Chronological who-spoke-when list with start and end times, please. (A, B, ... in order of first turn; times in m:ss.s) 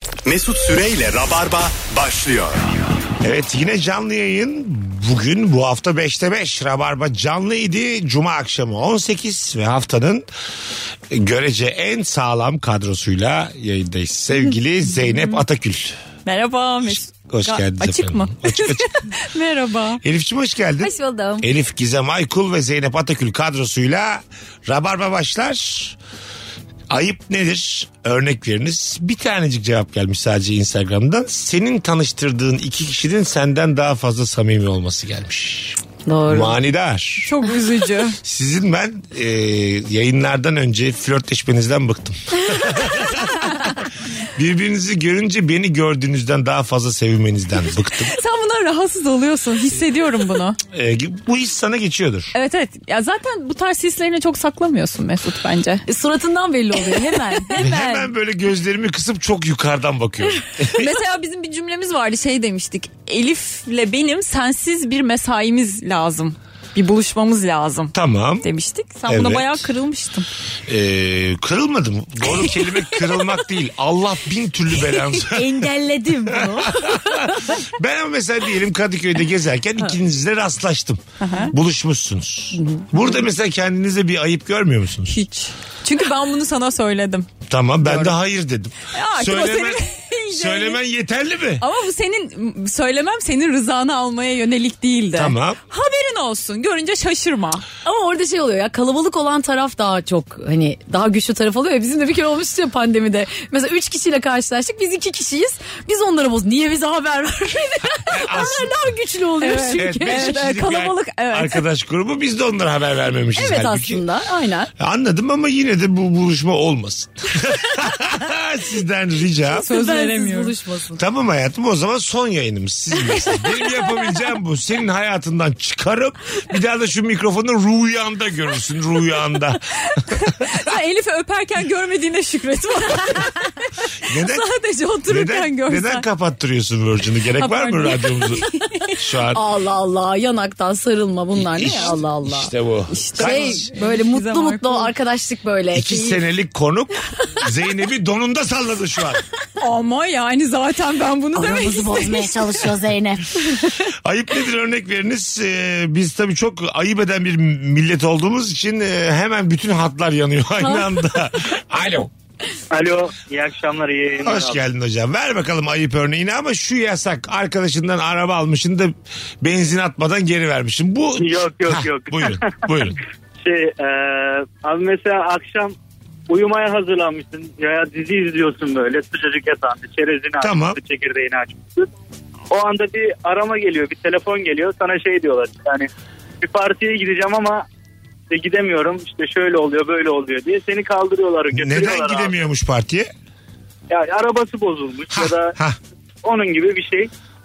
0:00.3-0:02.7 A
0:03.2-0:10.3 B
0:11.1-0:16.0 B
0:16.3-0:20.0 C
0:17.3-0:18.9 B
0:20.0-0:26.0 B
0:20.8-0:21.5 D
0:26.9-0:37.3 B
0:36.1-0:36.5 D
0:37.2-0:38.2 C
0:38.2-0:43.8 B
0:44.4-0:48.1 B
0:48.0-0:50.6 C
0:50.7-0:52.3 B
0:52.3-0:55.8 C
0:55.9-0:57.6 D
0:57.0-0:58.1 C
0:57.6-1:00.9 B
1:00.8-1:10.3 C
1:07.9-1:08.5 B
1:09.1-1:09.6 B
1:10.7-1:15.7 B
1:15.3-1:17.6 D
1:16.4-1:25.2 B
1:21.2-1:21.5 C
1:22.6-1:23.0 D
1:25.1-1:27.3 C
1:27.5-1:31.6 B
1:28.9-1:30.8 C
1:31.6-1:37.6 C
1:35.2-1:35.6 B
1:37.8-1:50.4 D
1:48.1-1:48.9 B
1:49.4-1:51.6 C
1:49.7-1:54.0 B
1:53.4-1:54.7 D
1:54.8-1:59.7 B
1:59.5-2:00.5 C
1:59.6-2:01.0 D
2:01.0-2:09.7 B
2:03.3-2:03.6 C
2:09.9-2:16.1 C
2:14.1-2:14.5 B
2:15.1-2:19.4 B
2:17.4-2:18.9 C
2:19.3-2:22.5 D
2:21.4-2:23.7 B
2:22.9-2:24.9 C
2:23.2-2:26.2 D
2:25.7-2:29.2 B
2:29.6-2:32.7 C
2:31.4-2:33.9 D
2:34.0-2:42.1 B
2:42.7-2:44.6 E
2:44.2-2:53.0 B
2:51.2-2:52.6 E
2:53.4-2:55.8 E
2:56.3-3:01.9 E
3:00.4-3:00.8 B
3:02.5-3:05.9 E
3:06.4-3:07.6 E
3:08.3-3:12.4 E
3:11.5-3:13.1 B
3:13.9-3:15.6 E
3:15.1-3:15.8 B
3:16.2-3:17.1 E